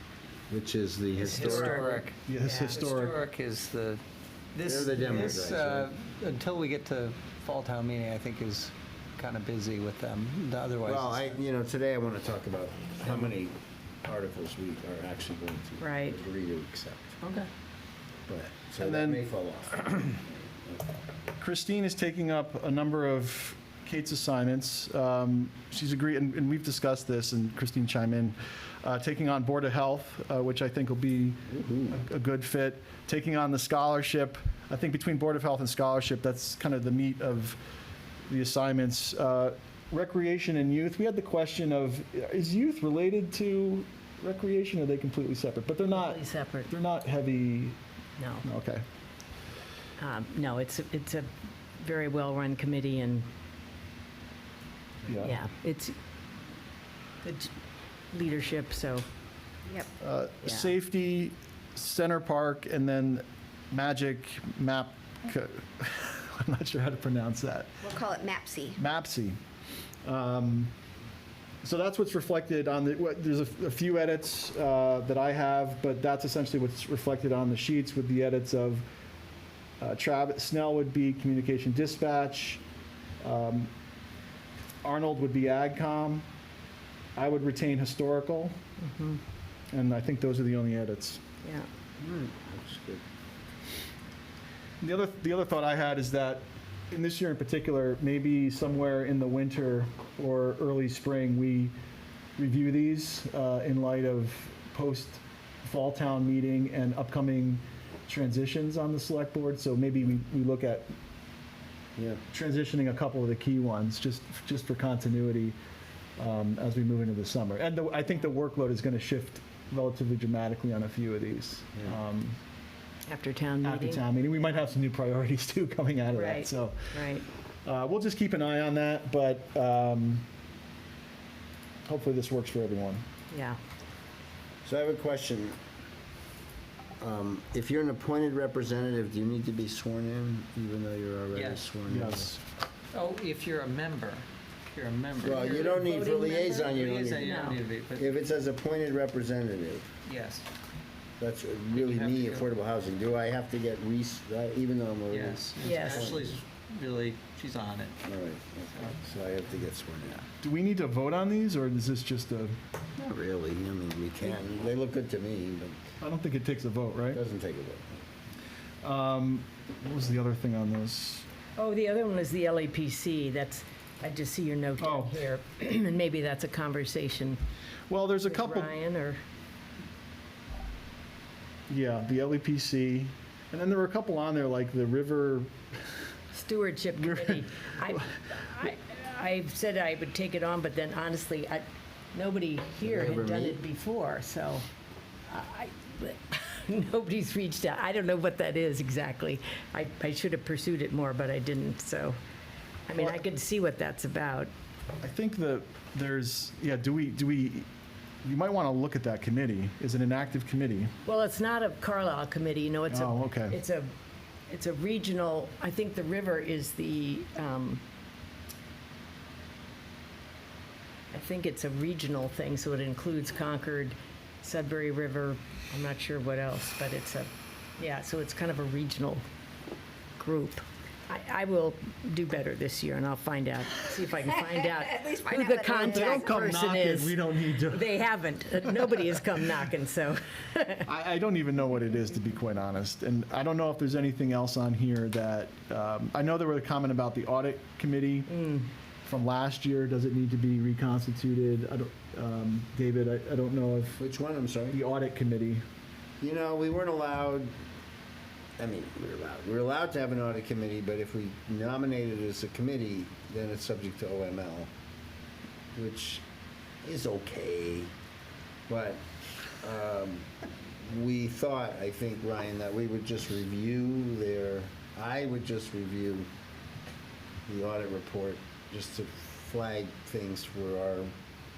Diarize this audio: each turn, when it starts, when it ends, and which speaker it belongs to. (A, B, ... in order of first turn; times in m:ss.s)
0:00.5-0:02.0 A
0:01.2-0:02.2 B
0:01.4-0:01.9 C
0:02.2-0:03.1 D
0:02.4-0:02.8 C
0:02.7-0:04.0 B
0:04.5-0:11.4 B
0:04.6-0:05.9 A
0:10.8-0:17.2 A
0:15.8-0:16.2 C
0:17.2-0:17.5 B
0:18.3-0:20.8 A
0:18.8-0:19.2 D
0:21.4-0:37.6 D
0:31.5-0:32.0 A
0:38.3-0:47.8 D
0:45.9-0:46.7 C
0:48.2-0:48.4 C
0:48.4-0:48.8 D
0:50.0-0:51.3 C
0:51.8-0:53.2 C
0:55.1-0:55.4 D
0:55.2-0:55.9 C
0:57.2-0:57.5 C
0:58.1-0:59.0 C
1:00.0-1:07.8 D
1:00.4-1:00.7 C
1:07.8-1:08.8 E
1:08.8-1:09.4 D
1:10.0-1:10.7 D
1:11.6-1:18.9 D
1:19.8-1:22.6 D
1:23.2-1:23.7 D
1:24.8-1:26.2 D
1:27.2-1:28.6 D
1:28.8-1:29.2 C
1:29.7-1:31.2 D
1:32.0-1:33.0 A
1:34.8-1:41.7 D
1:42.4-1:50.8 D
1:52.0-1:52.2 A
1:52.3-1:55.6 D
1:56.2-2:02.4 D
2:03.1-2:04.0 C
2:03.6-2:06.9 D
2:06.1-2:07.2 C
2:07.6-2:10.2 D
2:11.8-2:13.0 D
2:13.3-2:13.6 C
2:14.6-2:15.6 A
2:17.0-2:22.3 A
2:21.3-2:21.6 B
2:21.9-2:22.4 D
2:22.9-2:28.2 B
2:25.2-2:27.3 A
2:25.4-2:27.6 C
2:27.9-2:29.9 A
2:30.0-2:30.5 B
2:31.2-2:36.4 A
2:31.7-2:32.5 B
2:35.1-2:38.1 B
2:35.6-2:36.2 C
2:38.0-2:40.2 A
2:40.4-2:42.6 D
2:43.0-2:45.8 A
2:46.0-2:47.2 D
2:47.1-2:47.9 A
2:48.8-2:51.2 D
2:51.6-2:57.4 C
2:54.8-2:55.2 D
2:57.9-2:58.7 D
2:58.2-2:59.2 C
3:01.7-3:05.5 D
3:06.3-3:14.6 C
3:07.0-3:07.4 D
3:12.8-3:13.6 A
3:15.3-3:22.2 C
3:22.9-3:24.5 C
3:25.0-3:27.7 D
3:28.2-3:30.9 D
3:31.0-3:33.9 C
3:32.9-3:33.6 D
3:34.5-3:37.8 C
3:41.1-3:49.2 C
3:50.2-4:00.8 C
3:54.6-3:56.3 E
3:55.7-3:58.0 D
4:00.8-4:08.3 D
4:08.3-4:08.7 C
4:09.0-4:14.0 D
4:14.0-4:14.8 A
4:14.7-4:15.6 D
4:16.2-4:17.5 A
4:18.6-4:24.7 A
4:25.7-4:26.2 A
4:26.8-4:27.9 A
4:28.7-4:30.3 A
4:30.8-4:36.3 A
4:37.5-4:41.1 A